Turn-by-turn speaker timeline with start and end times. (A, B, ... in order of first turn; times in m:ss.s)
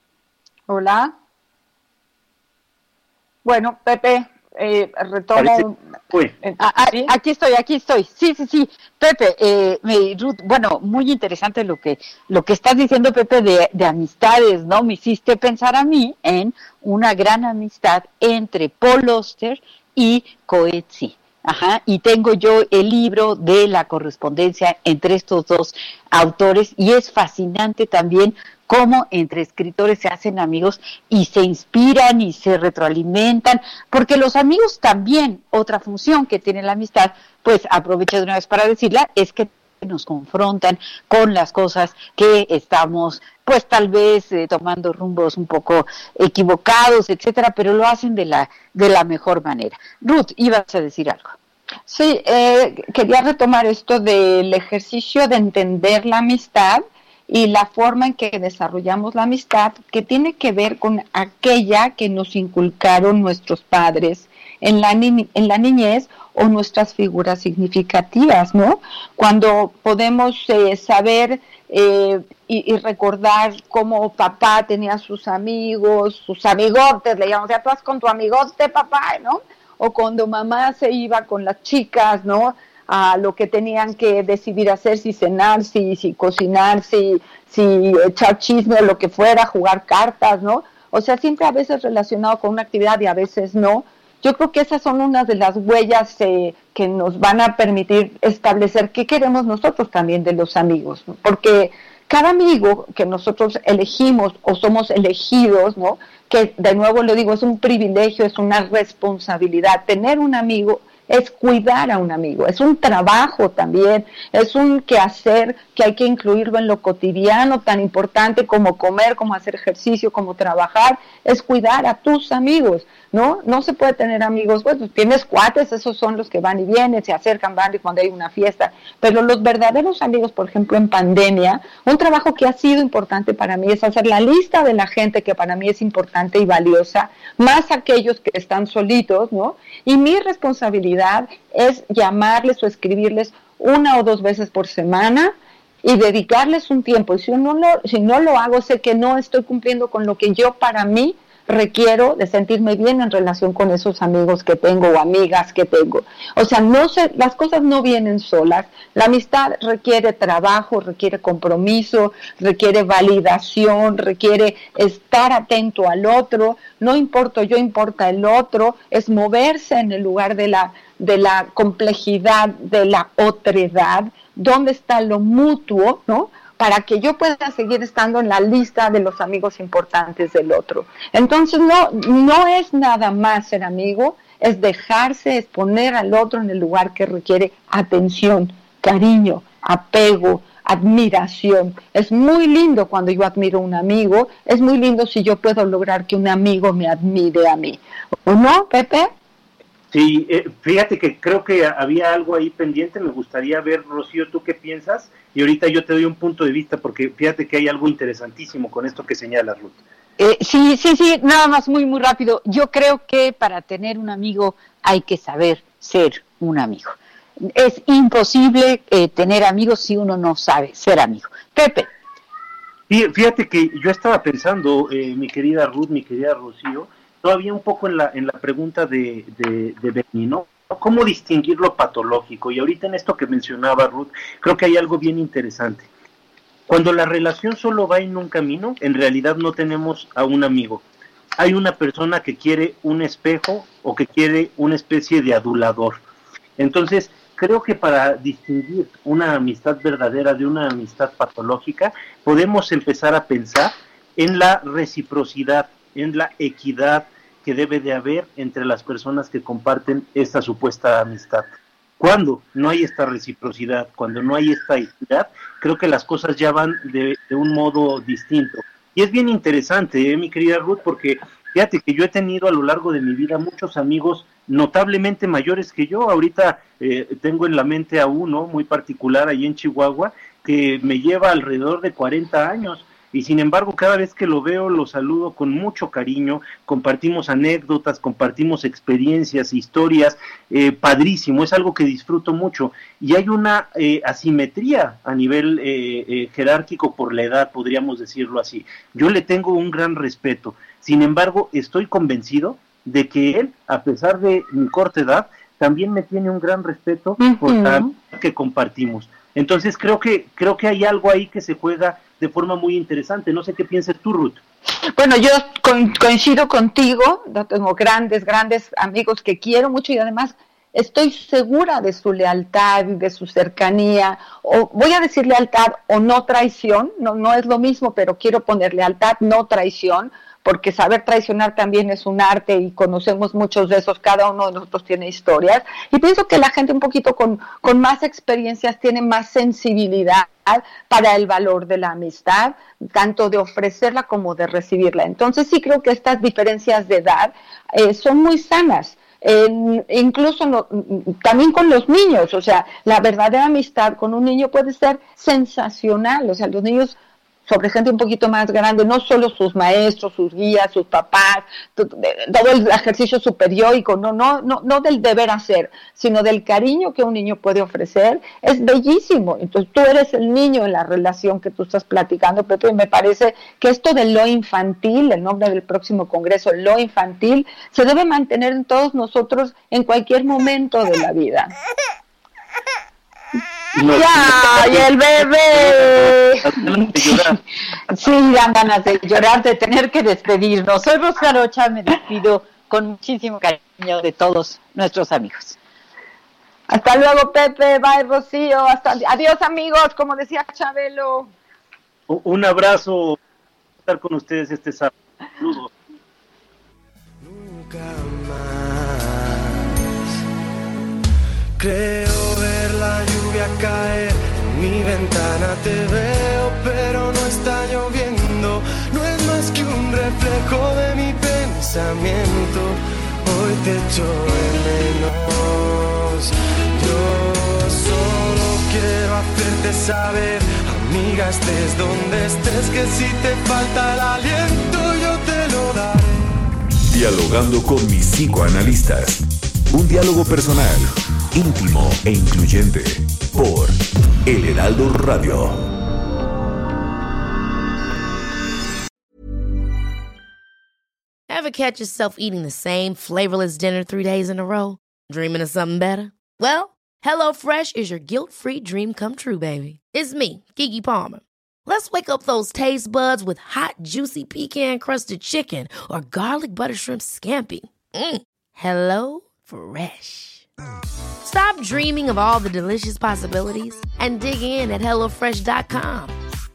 0:00.7-0:01.1 A
0:03.4-0:05.8 A
0:05.4-0:06.3 B
0:06.4-0:07.1 A
0:06.6-0:51.3 C
0:51.9-3:19.1 A
3:19.9-3:29.8 B
3:30.2-3:41.9 C
3:42.9-3:55.9 B
3:56.7-4:00.8 B
4:01.4-4:06.0 B
4:06.6-4:21.5 B
4:22.0-5:14.4 B
5:07.2-5:07.9 A
5:14.9-6:21.5 A
6:23.7-6:25.0 B
6:23.9-6:26.4 A
6:25.5-6:27.4 B
6:27.9-6:35.6 C
6:36.7-6:41.3 A
6:42.1-6:43.2 B
6:43.8-6:45.7 B
6:47.2-6:49.0 D
6:51.6-7:06.0 D
7:06.8-7:16.1 D
7:16.9-7:23.7 E
7:24.2-7:25.6 E
7:31.3-7:50.4 F
7:51.2-7:56.1 F